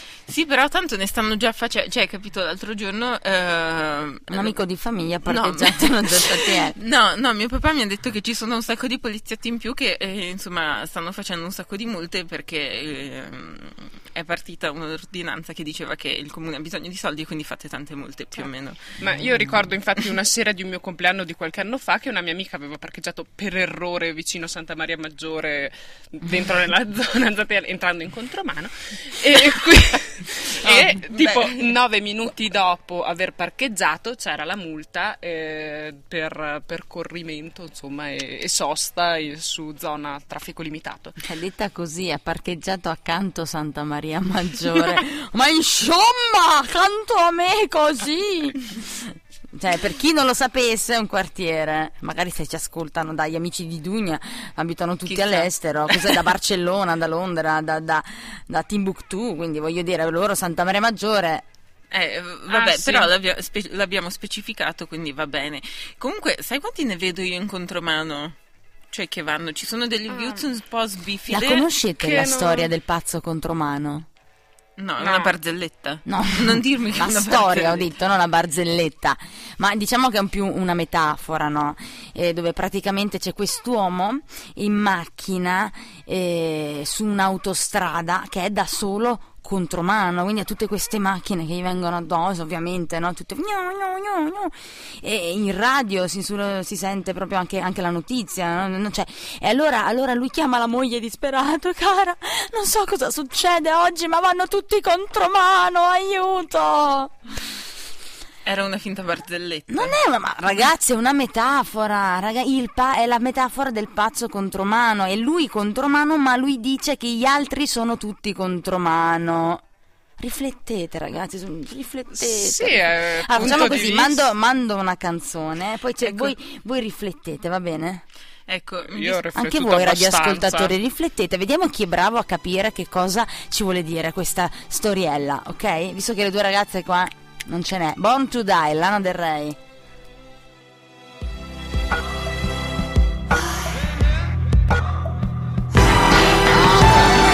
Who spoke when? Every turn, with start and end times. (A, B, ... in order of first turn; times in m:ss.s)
0:00.3-0:04.6 A
0:04.3-0:06.8 B
0:05.2-0:19.0 A
0:19.0-0:41.2 C
0:30.6-0:31.7 A
0:41.2-1:01.5 B
0:55.1-0:56.2 A
1:01.9-1:08.4 A
1:02.5-1:03.1 C
1:08.9-1:11.7 A
1:10.1-1:10.4 C
1:11.3-1:14.1 B
1:12.0-1:12.7 C
1:14.8-1:17.9 A
1:15.0-1:15.3 C
1:16.1-1:47.2 B
1:48.4-1:50.0 A
1:49.7-1:59.6 B
2:00.2-2:08.0 B
2:02.2-2:04.2 C
2:08.5-2:09.3 A
2:08.9-2:10.8 C
2:09.4-2:19.6 B